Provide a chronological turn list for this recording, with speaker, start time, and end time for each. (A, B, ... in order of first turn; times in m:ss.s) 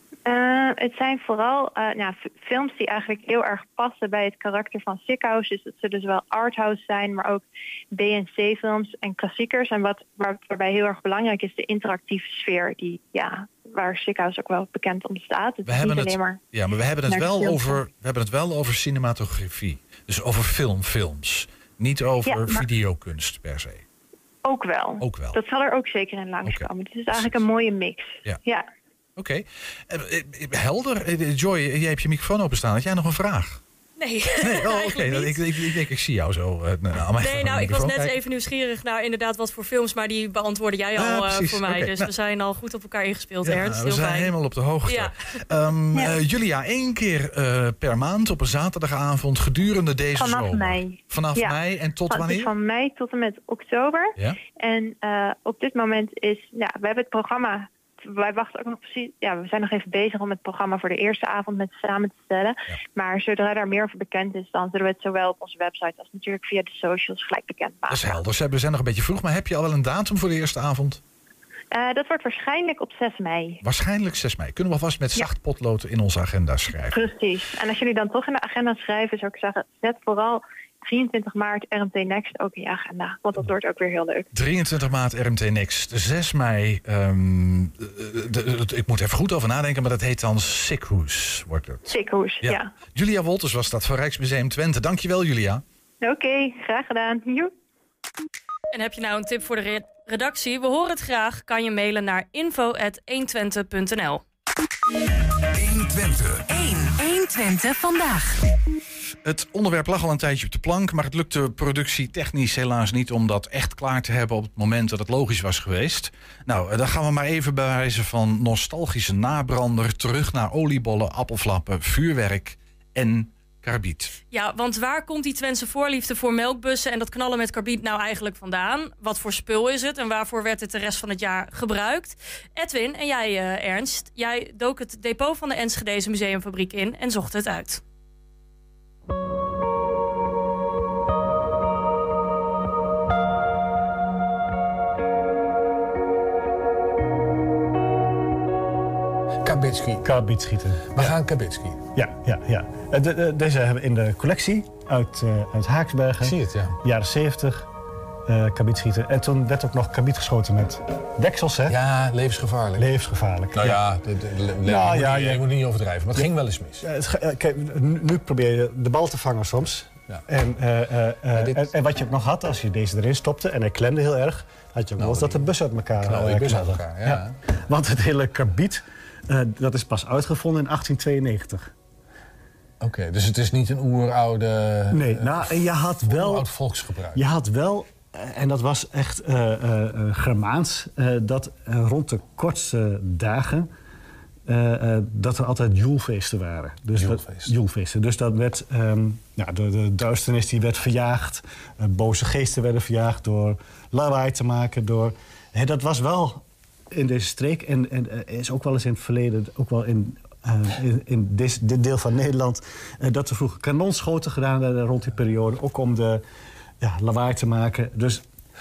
0:00.2-0:16.4 A
0:15.7-0:23.8 B
0:17.0-0:17.8 A
0:22.2-0:22.6 A
0:24.4-0:28.6 A
0:25.0-0:25.4 B
0:29.2-0:33.6 B
0:34.0-0:35.4 C
0:34.4-0:38.2 B
0:37.2-0:44.3 C
0:40.9-0:42.1 B
0:43.4-0:52.5 B
0:44.8-0:45.1 C
0:50.1-0:51.6 A
0:52.1-1:08.2 A
1:07.9-1:11.0 B
1:11.7-1:13.6 A
1:13.6-1:17.0 B
1:16.9-1:24.3 A
1:24.3-1:35.6 B
1:31.9-1:32.7 A
1:36.0-1:37.5 A
1:38.7-1:44.2 C
1:45.5-1:48.5 D
1:49.2-2:04.1 B
2:04.3-2:17.8 C
2:29.4-2:30.0 E
2:30.0-2:31.2 F
2:30.9-2:31.8 E
2:31.9-2:37.7 F
2:36.2-2:36.8 E
2:38.3-2:41.8 F
2:41.7-2:42.9 E
2:42.8-2:43.8 F
2:43.5-2:46.8 E
2:44.6-2:45.4 F
2:46.1-3:01.7 F
2:51.3-2:51.7 E
2:55.0-2:55.5 E
2:56.0-2:57.3 E
3:02.8-3:07.2 E
3:04.9-3:06.5 F
3:07.1-3:13.7 F
3:14.5-3:36.2 F
3:16.9-3:17.5 E
3:36.8-3:38.2 F